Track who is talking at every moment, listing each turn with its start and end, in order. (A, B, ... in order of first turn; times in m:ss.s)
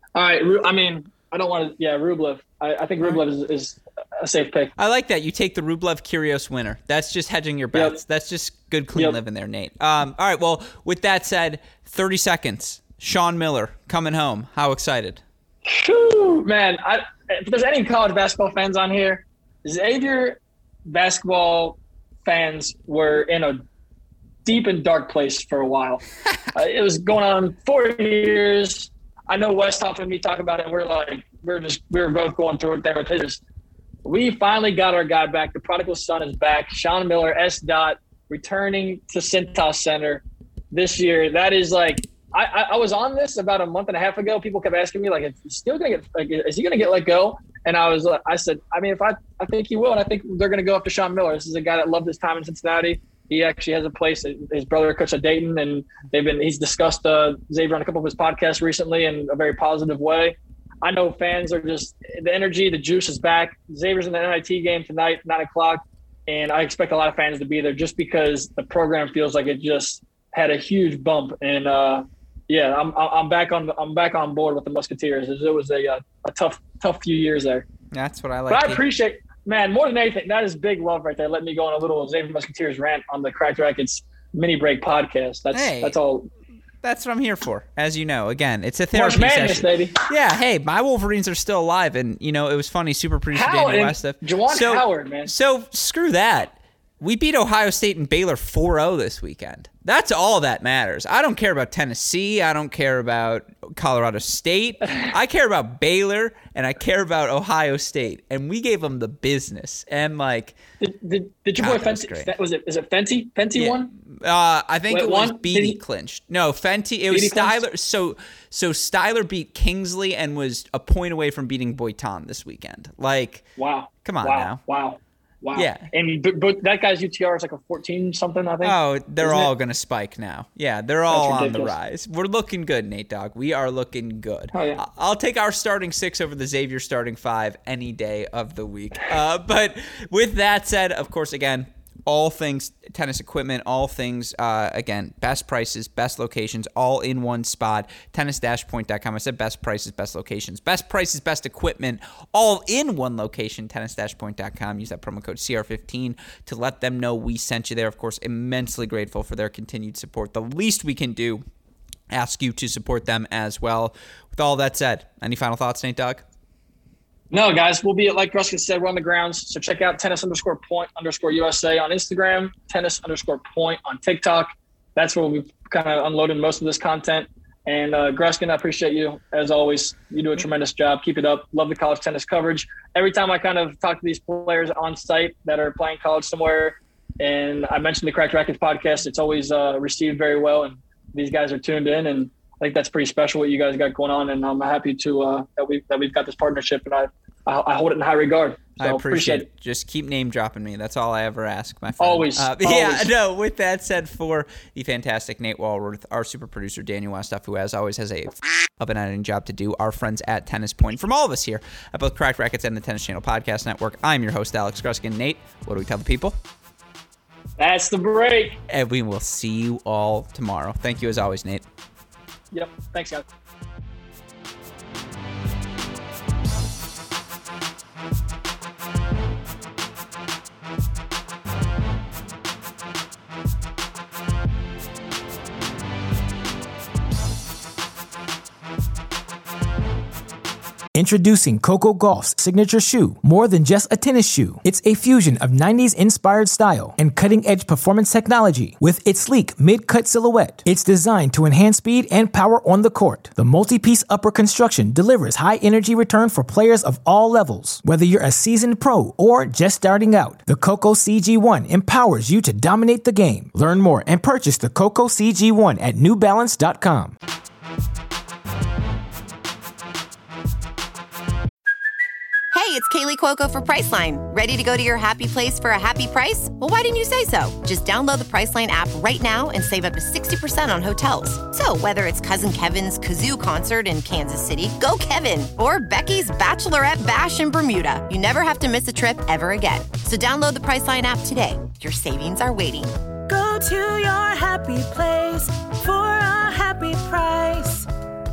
0:00.1-0:04.7 A
0:04.8-0:15.2 B
0:15.6-0:23.6 A
0:24.4-0:26.0 A
0:26.5-0:33.4 A
0:34.0-1:17.7 A
1:17.9-1:18.8 B
1:18.5-1:26.3 A
1:25.5-1:26.0 B
1:26.8-1:50.6 B
1:28.9-1:30.0 A
1:33.3-1:35.3 A
1:50.8-1:53.9 A
1:51.6-1:52.3 B
1:53.6-2:03.4 B
1:54.9-1:55.8 A
1:57.1-1:57.6 A
2:03.6-2:09.5 A
2:04.0-2:04.6 B
2:05.5-2:05.9 B
2:08.6-2:41.4 B
2:11.1-2:11.7 A
2:14.5-2:14.8 A
2:42.1-2:46.2 B
2:47.3-3:19.4 A
3:18.8-3:36.4 B
3:22.0-3:23.1 A
3:37.6-3:38.6 A
3:38.7-3:41.6 B
3:42.5-3:43.2 A
4:00.9-4:27.1 C
4:32.5-4:53.0 D
4:53.3-4:57.9 E